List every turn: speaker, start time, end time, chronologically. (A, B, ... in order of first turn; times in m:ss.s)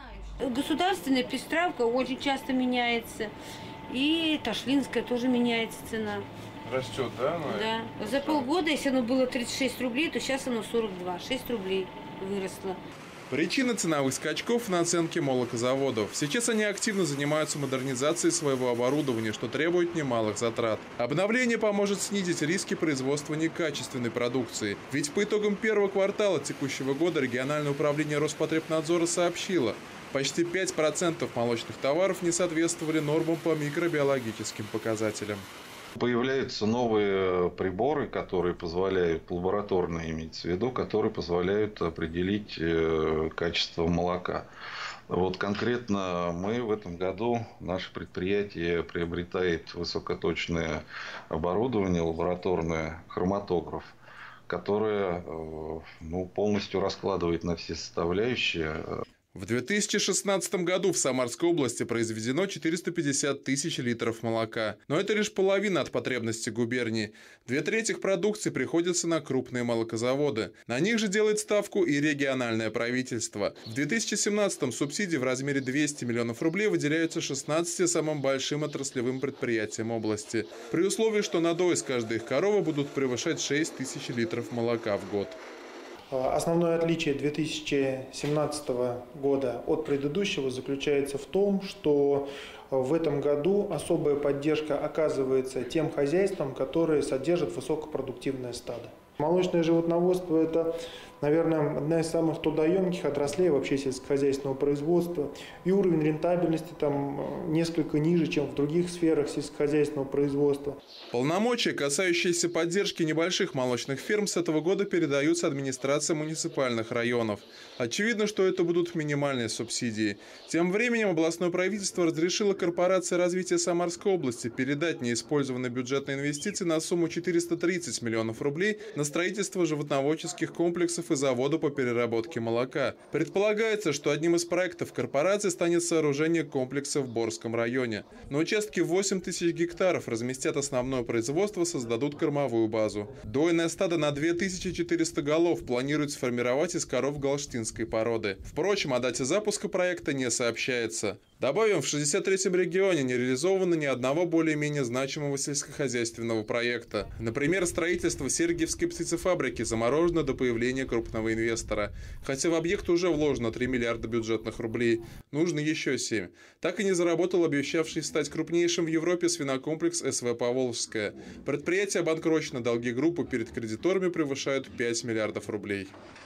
0:00.4-0:03.3 A
0:03.9-0:06.3 A
0:06.6-0:08.5 B
0:07.4-0:12.8 A
0:13.3-0:35.5 B
0:36.0-0:44.5 C
0:45.1-0:54.0 C
0:54.5-0:59.0 C
0:59.3-1:25.4 B
1:26.1-1:50.8 D
1:51.1-2:55.9 B